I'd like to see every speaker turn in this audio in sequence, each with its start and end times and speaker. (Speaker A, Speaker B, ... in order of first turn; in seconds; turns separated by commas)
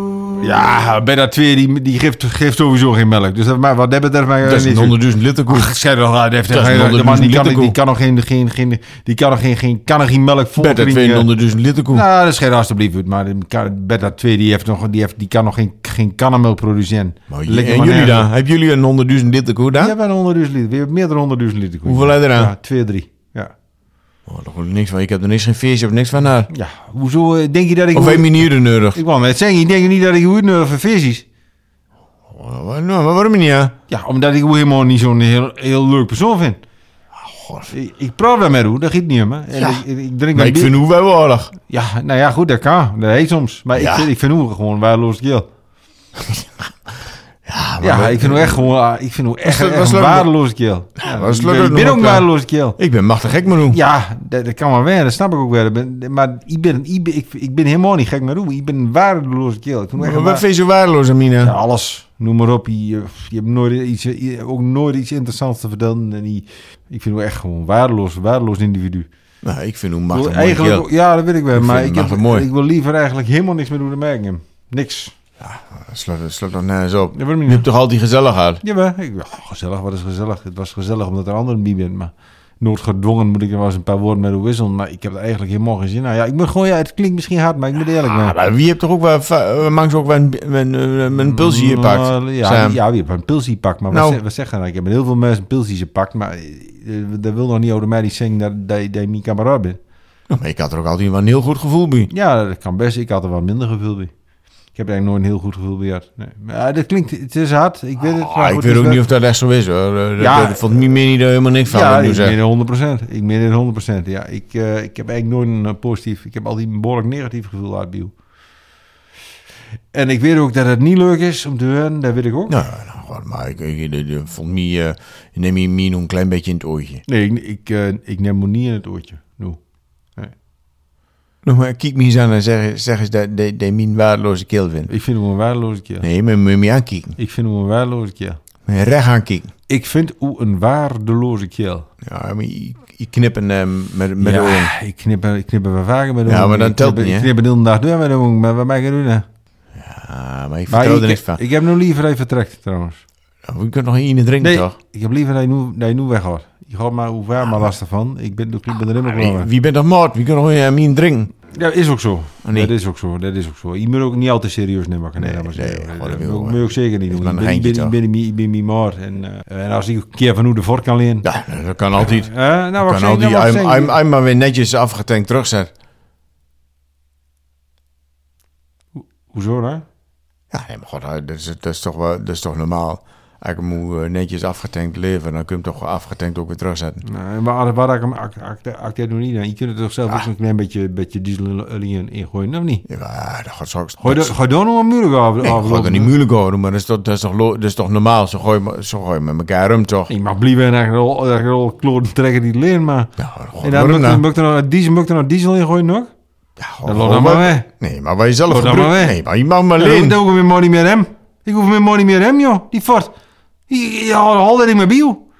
Speaker A: 0.4-11.3, Speaker B: 4.4-5.7, Speaker B: 6.5-7.8, Speaker B: 10.6-12.1, Speaker A: 11.9-18.3, Speaker B: 17.3-19.9, Speaker A: 19.8-23.5, Speaker B: 21.8-22.5, Speaker B: 24.3-26.5, Speaker A: 26.5-31.2, Speaker B: 27.9-29.0, Speaker B: 32.3-33.7, Speaker A: 33.9-36.6, Speaker B: 37.2-37.7, Speaker A: 37.7-40.7, Speaker B: 39.6-39.8, Speaker B: 40.3-41.5, Speaker A: 41.6-45.5, Speaker B: 43.8-44.0, Speaker B: 46.2-46.5, Speaker B: 47.5-48.6, Speaker A: 47.8-52.8, Speaker B: 49.4-50.3, Speaker B: 51.0-53.8, Speaker A: 53.7-60.4, Speaker B: 60.0-61.6, Speaker A: 61.4-69.1, Speaker B: 69.4-70.8, Speaker A: 70.1-75.1, Speaker B: 71.5-72.5, Speaker B: 75.4-78.6, Speaker A: 77.1-77.7, Speaker A: 78.6-88.3, Speaker B: 88.0-92.8, Speaker A: 91.1-99.8, Speaker B: 93.9-94.2, Speaker B: 100.3-102.1, Speaker A: 102.1-104.1, Speaker A: 104.7-109.0, Speaker B: 108.0-112.4, Speaker A: 110.2-110.7, Speaker A: 111.7-118.1, Speaker A: 119.9-122.6, Speaker B: 122.5-127.0, Speaker A: 127.0-129.6, Speaker B: 131.4-134.9, Speaker A: 134.9-136.1, Speaker B: 136.0-137.1, Speaker A: 137.2-138.4, Speaker B: 138.7-139.5, Speaker A: 139.7-141.9, Speaker B: 142.0-144.7, Speaker A: 144.2-149.2, Speaker B: 146.2-147.3, Speaker B: 149.8-151.4, Speaker A: 150.7-153.0, Speaker B: 153.4-154.7, Speaker A: 154.4-159.5, Speaker B: 159.0-161.3, Speaker A: 161.5-171.2, Speaker B: 162.4-162.7, Speaker B: 165.2-167.9, Speaker B: 171.2-175.7, Speaker A: 171.9-173.9, Speaker A: 179.3-179.8, Speaker B: 180.5-187.0, Speaker A: 187.0-192.8, Speaker B: 192.9-194.3, Speaker A: 194.0-196.1, Speaker B: 195.4-200.1, Speaker A: 200.1-206.1, Speaker B: 203.2-204.2, Speaker B: 206.6-210.2, Speaker A: 206.8-207.7, Speaker A: 208.5-209.2, Speaker A: 209.8-213.1, Speaker A: 213.7-215.2